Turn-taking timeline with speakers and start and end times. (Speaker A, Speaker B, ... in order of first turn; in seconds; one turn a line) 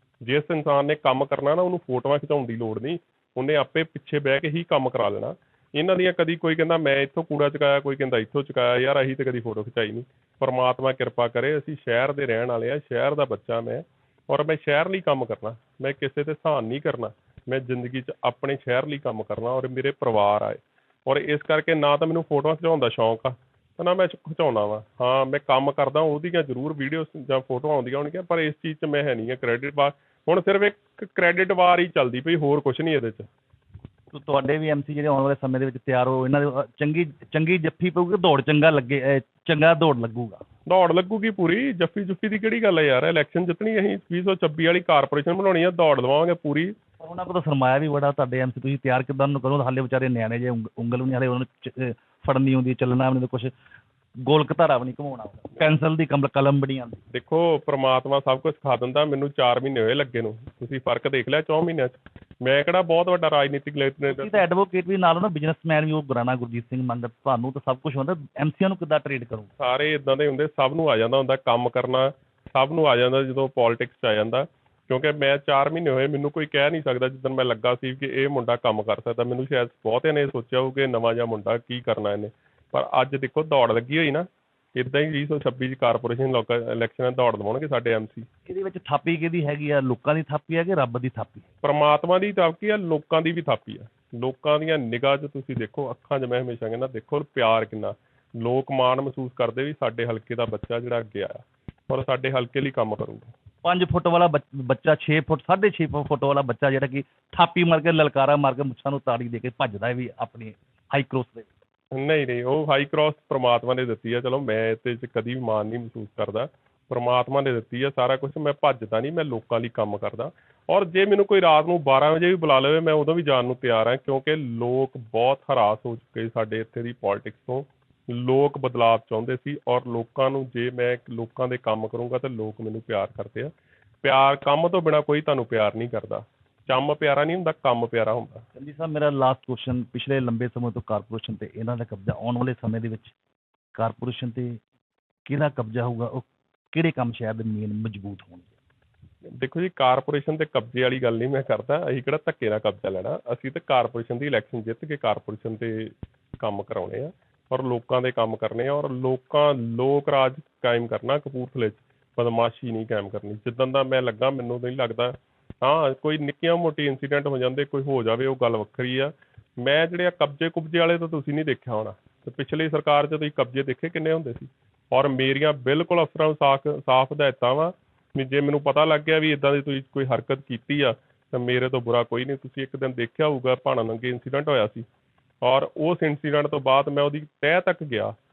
Speaker A: 0.2-33.3
Speaker B: 34.1-40.4
Speaker A: 40.7-46.8
Speaker B: 47.0-53.5
Speaker B: 54.2-57.0
Speaker A: 57.1-64.4
Speaker B: 64.1-69.5
Speaker A: 69.6-88.3
Speaker B: 88.5-91.5
Speaker A: 91.6-103.3
Speaker B: 103.6-111.5
Speaker A: 111.9-138.5
Speaker B: 138.6-143.1
Speaker B: 143.8-144.6
Speaker B: 145.3-148.5
Speaker A: 149.4-184.9
Speaker A: 185.4-188.1